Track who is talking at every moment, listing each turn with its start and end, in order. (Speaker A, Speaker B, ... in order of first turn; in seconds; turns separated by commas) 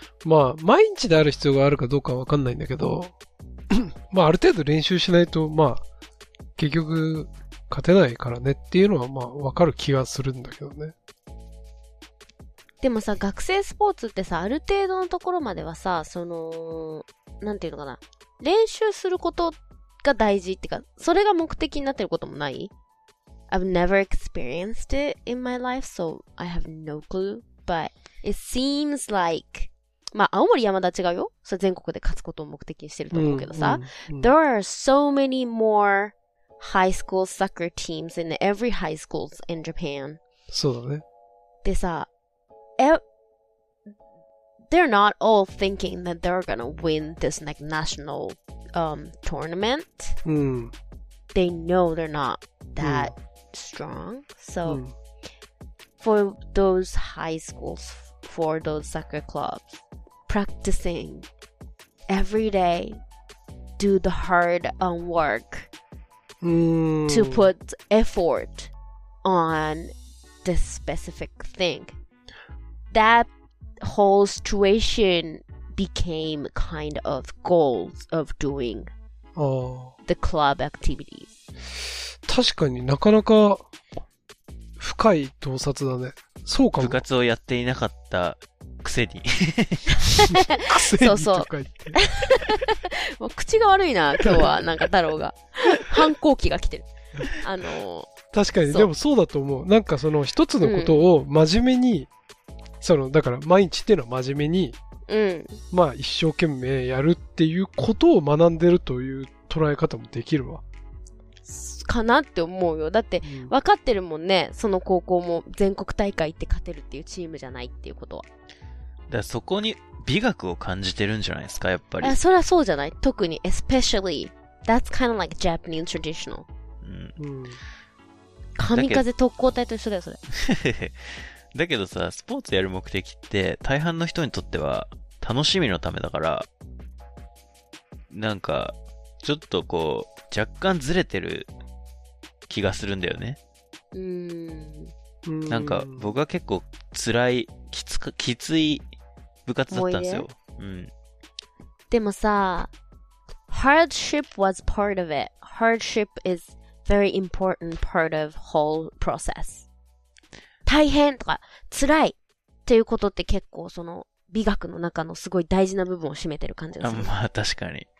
Speaker A: 0.2-3.1, Speaker A: 3.7-5.8, Speaker A: 6.6-10.9, Speaker B: 12.8-22.7, Speaker B: 23.5-40.2, Speaker A: 33.1-34.3, Speaker A: 40.5-41.0, Speaker B: 41.6-42.1, Speaker B: 44.7-50.2, Speaker A: 50.2-50.7, Speaker B: 51.3-54.8, Speaker A: 52.8-53.1, Speaker A: 54.6-54.9, Speaker B: 56.0-61.3, Speaker B: 62.1-63.0, Speaker B: 63.8-65.7, Speaker A: 66.4-67.5, Speaker B: 67.1-68.7, Speaker B: 69.2-69.9, Speaker B: 70.4-71.9, Speaker B: 72.9-73.3, Speaker B: 73.8-78.9, Speaker A: 79.3-79.9, Speaker B: 80.0-81.3, Speaker A: 82.2-83.7, Speaker A: 84.8-87.0, Speaker C: 86.8-90.2, Speaker B: 90.1-98.1, Speaker A: 90.6-92.0, Speaker A: 94.2-94.5, Speaker A: 98.3-102.1, Speaker B: 100.6-101.0, Speaker A: 102.8-104.8, Speaker B: 105.1-105.6, Speaker A: 105.7-110.6, Speaker B: 111.5-118.2, Speaker A: 113.2-113.5, Speaker C: 119.1-122.2, Speaker B: 122.0-126.5, Speaker C: 126.8-127.2, Speaker A: 127.2-127.6, Speaker B: 128.6-130.2, Speaker C: 128.7-129.0, Speaker C: 130.4-136.5, Speaker C: 138.1-141.5, Speaker C: 142.5-143.4, Speaker B: 143.9-144.9, Speaker A: 145.2-146.1, Speaker C: 145.5-148.8, Speaker C: 149.4-150.9, Speaker B: 149.7-150.2, Speaker B: 151.9-152.7, Speaker B: 153.5-159.7, Speaker B: 160.7-167.1, Speaker C: 166.8-167.9